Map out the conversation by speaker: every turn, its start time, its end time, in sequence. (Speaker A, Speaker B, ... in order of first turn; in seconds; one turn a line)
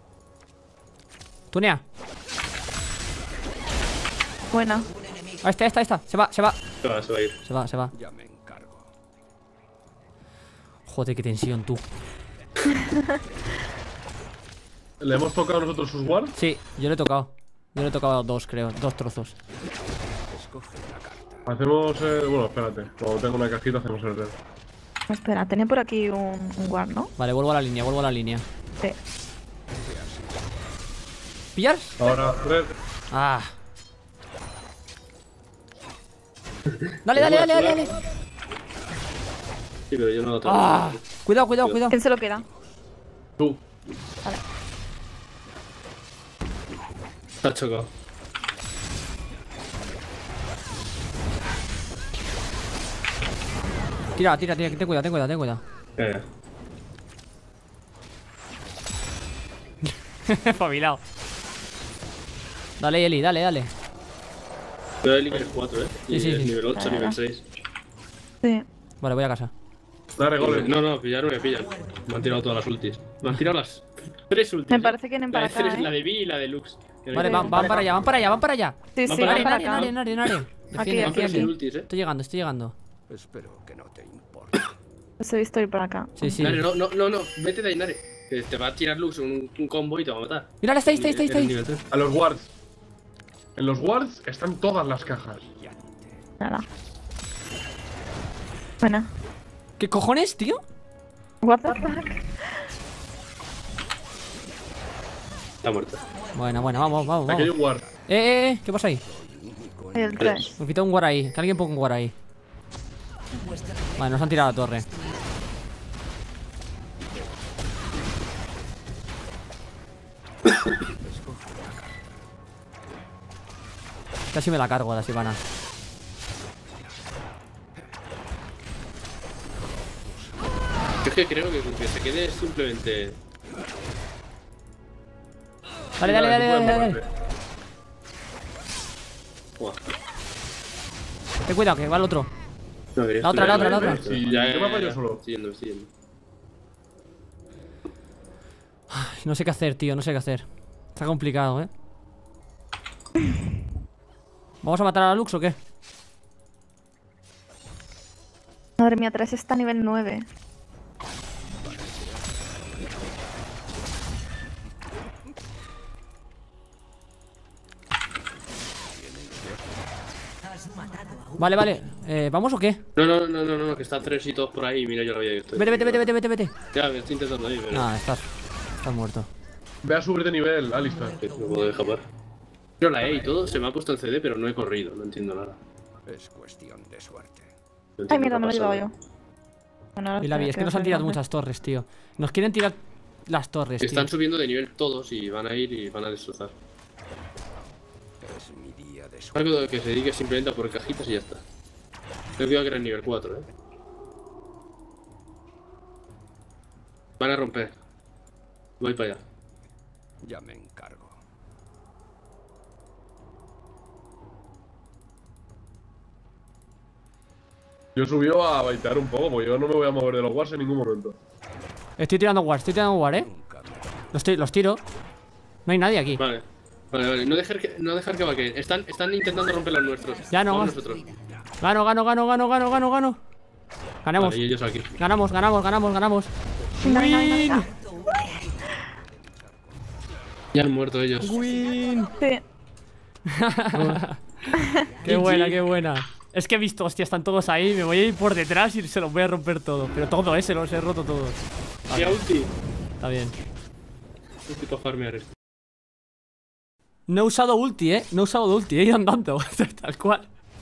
Speaker A: 1.5-1.8
Speaker B: 4.5-4.9
Speaker A: 5.4-6.6
Speaker C: 6.8-7.3
Speaker A: 7.4-7.9
Speaker D: 8.0-8.8
Speaker A: 10.9-11.8
Speaker E: 15.0-16.3
Speaker A: 16.4-19.3
Speaker D: 20.3-21.3
Speaker E: 21.4-24.3
Speaker B: 25.1-27.1
Speaker A: 27.2-28.4
Speaker A: 31.5-32.0
Speaker E: 32.0-32.7
Speaker A: 33.1-33.5
Speaker A: 37.0-38.0
Speaker C: 37.1-37.9
Speaker C: 39.9-41.0
Speaker A: 40.4-42.0
Speaker B: 41.9-42.5
Speaker C: 47.4-47.9
Speaker A: 54.1-55.6
Speaker C: 56.0-56.2
Speaker A: 60.3-61.0
Speaker A: 62.8-63.7
Speaker C: 65.0-67.5
Speaker A: 66.1-66.5
Speaker B: 66.8-67.2
Speaker A: 69.0-69.5
Speaker E: 70.2-70.8
Speaker C: 70.4-78.1
Speaker B: 74.7-75.9
Speaker A: 77.1-82.7
Speaker B: 77.1-77.6
Speaker B: 79.0-79.9
Speaker C: 79.0-80.0
Speaker B: 80.7-81.5
Speaker C: 81.0-81.9
Speaker D: 83.1-84.7
Speaker B: 85.2-86.4
Speaker A: 86.2-86.6
Speaker C: 86.4-91.8
Speaker A: 90.6-91.5
Speaker E: 91.9-92.5
Speaker E: 93.5-95.5
Speaker D: 95.6-95.9
Speaker B: 98.8-99.1
Speaker A: 99.8-100.6
Speaker B: 101.4-102.2
Speaker C: 105.6-106.0
Speaker A: 106.3-109.0
Speaker E: 107.3-107.8
Speaker D: 109.2-110.4
Speaker B: 109.9-110.5
Speaker C: 110.2-110.4
Speaker A: 110.6-112.1
Speaker A: 114.0-114.9
Speaker D: 121.1-121.4
Speaker A: 124.3-125.4
Speaker C: 131.0-133.2
Speaker A: 136.0-137.0
Speaker E: 136.0-137.1
Speaker A: 141.5-142.3
Speaker C: 142.9-145.9
Speaker A: 143.2-144.1
Speaker E: 143.4-145.2
Speaker A: 148.9-151.7
Speaker A: 154.6-155.6
Speaker B: 158.8-160.2
Speaker A: 171.3-172.8
Speaker C: 172.9-176.1
Speaker A: 175.6-176.5
Speaker C: 176.7-177.9
Speaker A: 177.7-178.2
Speaker A: 178.8-179.3
Speaker E: 179.8-181.2
Speaker C: 181.2-182.0
Speaker C: 182.8-185.6
Speaker D: 186.1-187.5
Speaker C: 188.0-188.9
Speaker B: 188.1-188.9
Speaker B: 189.9-191.2
Speaker A: 190.2-194.1
Speaker C: 193.8-196.5
Speaker D: 198.3-199.3
Speaker C: 199.3-201.4
Speaker C: 202.4-203.5
Speaker C: 207.2-207.7
Speaker C: 208.8-209.2
Speaker D: 210.2-211.1
Speaker E: 217.9-221.2
Speaker A: 222.0-223.3
Speaker D: 223.5-223.8
Speaker A: 224.1-224.8
Speaker A: 225.7-226.2
Speaker C: 226.2-231.1
Speaker A: 230.3-230.8
Speaker A: 231.6-233.2
Speaker A: 234.0-234.4
Speaker C: 234.2-234.9
Speaker A: 234.9-237.7
Speaker B: 236.8-237.7
Speaker D: 239.0-239.5
Speaker C: 240.5-241.4
Speaker A: 241.2-242.1
Speaker B: 242.2-242.4
Speaker A: 243.3-252.2
Speaker C: 243.7-244.0
Speaker C: 245.0-245.6
Speaker C: 251.9-252.5
Speaker A: 253.0-253.3
Speaker C: 254.5-255.3
Speaker A: 257.1-260.3